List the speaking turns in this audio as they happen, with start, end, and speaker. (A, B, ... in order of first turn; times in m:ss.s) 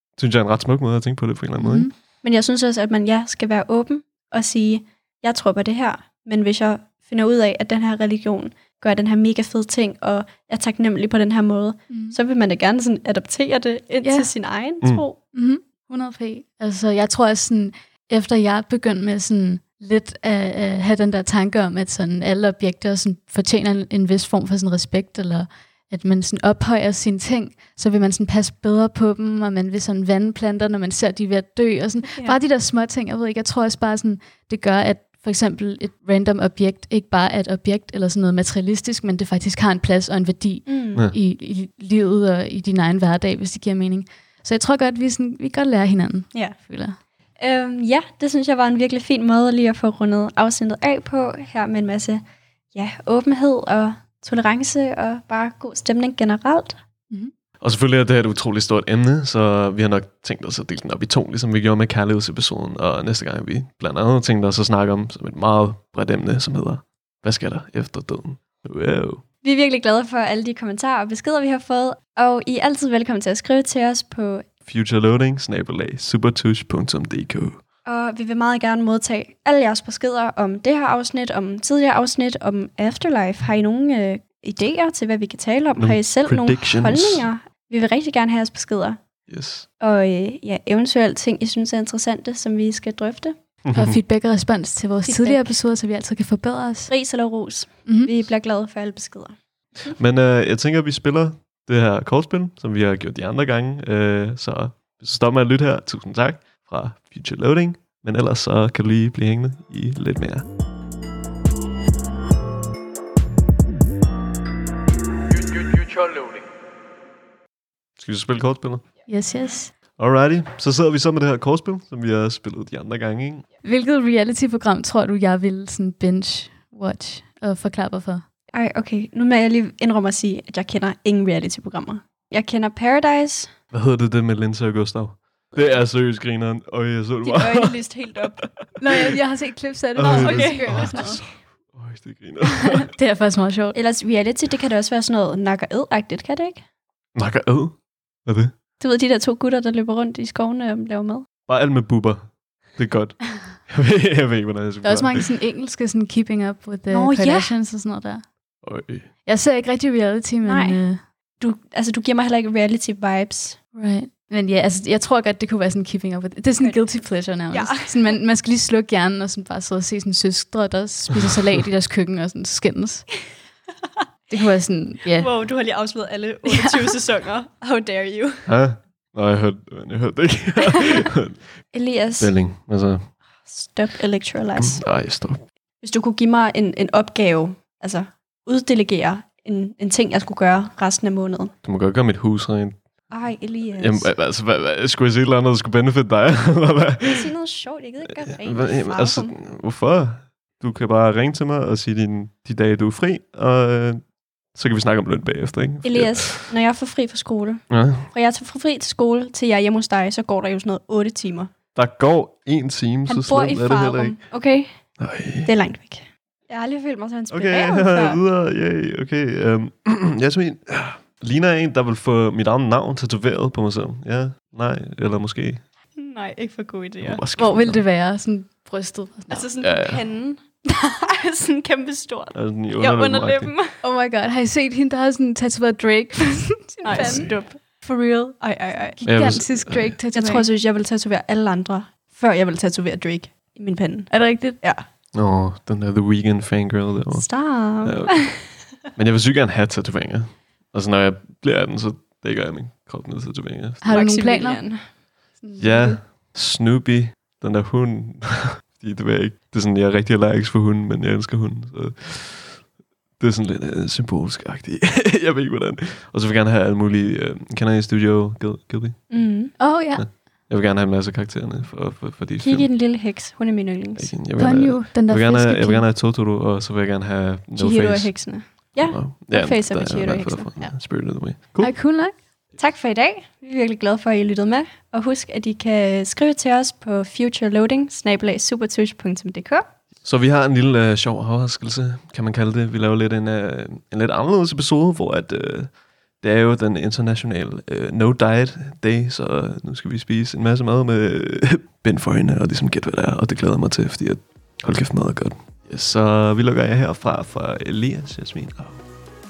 0:00.2-0:01.9 A
0:01.6-0:01.9 B
0:02.2-0:15.2 C
0:11.9-0:12.2 B
0:14.0-0:14.3 B
0:15.3-0:47.0 B
0:40.7-0:41.0 C
0:47.4-0:52.2 C
0:52.7-0:56.8 C
0:57.6-1:09.2 A
1:09.4-1:14.4 C
1:14.6-1:17.6 A
1:17.8-1:29.0 C
1:25.8-1:27.3 A
1:29.3-1:29.7 A
1:29.8-1:33.4 C
1:33.6-1:34.0 A
1:33.7-1:36.9 B
1:35.0-1:35.6 C
1:36.9-1:40.0 C
1:37.8-1:38.1 B
1:40.0-1:50.4 A
1:58.0-1:58.8 A
1:59.1-1:59.7 B
2:00.0-2:03.4 A
2:03.6-2:08.2 B
2:08.5-2:13.5 C
2:13.7-2:17.8 A
2:15.5-2:15.8 C
2:17.2-2:18.4 C
2:18.4-2:19.1 A
2:18.8-2:21.2 B
2:20.0-2:22.9 A
2:20.0-2:21.1 C
2:22.6-2:23.8 B
2:23.7-2:26.6 C
2:27.1-2:28.5 A
2:28.8-2:31.3 C
2:31.5-2:35.3 A
2:34.8-2:38.2 B
2:36.9-2:37.5 C
2:38.6-2:39.1 A
2:39.2-2:41.0 B
2:40.4-2:40.8 C
2:41.4-2:43.6 C
2:43.7-2:53.1 B
2:46.6-2:46.8 C
2:47.5-2:48.2 C
2:54.3-2:55.3 B
2:55.1-2:58.5 C
2:56.4-2:57.0 B
2:58.4-3:01.4 A
3:01.7-3:02.3 C
3:02.2-3:03.1 A
3:03.4-3:04.8 C
3:04.6-3:05.4 A
3:05.8-3:11.5 C
3:11.6-3:12.8 A
3:13.1-3:14.1 C
3:13.7-3:17.3 A
3:17.0-3:19.4 C
3:18.3-3:24.0 A
3:24.5-3:26.5 A
3:25.8-3:31.5 C
3:27.7-3:28.1 A
3:31.7-3:34.2 A
3:33.1-3:34.7 C
3:35.0-3:35.5 A
3:35.4-3:38.2 C
3:37.3-3:45.6 A
3:46.0-3:47.2 C
3:47.0-3:47.8 A
3:47.4-3:49.4 B
3:49.3-3:50.4 C
3:49.6-3:50.0 A
3:50.9-3:53.8 C
3:52.3-3:53.5 A
3:53.8-3:58.4 B
3:56.8-3:57.8 C
3:56.9-3:57.4 A
3:58.4-3:59.0 C
3:59.0-4:00.5 B
3:59.0-4:00.0 A
4:00.1-4:04.8 C
4:04.1-4:04.6 B
4:05.1-4:07.3 A
4:07.1-4:08.5 C
4:07.8-4:14.0 A
4:13.8-4:14.6 B
4:13.9-4:14.8 C
4:15.4-4:15.9 B
4:15.6-4:22.6 A
4:23.2-4:29.2 A
4:29.1-4:29.6 C
4:29.6-4:30.0 B
4:29.9-4:32.7 A
4:32.4-4:34.1 C
4:34.0-4:41.7 A
4:34.4-4:35.8 B
4:37.6-4:40.7 C
4:41.6-4:42.1 B
4:42.6-4:49.7 C
4:50.0-5:08.8 A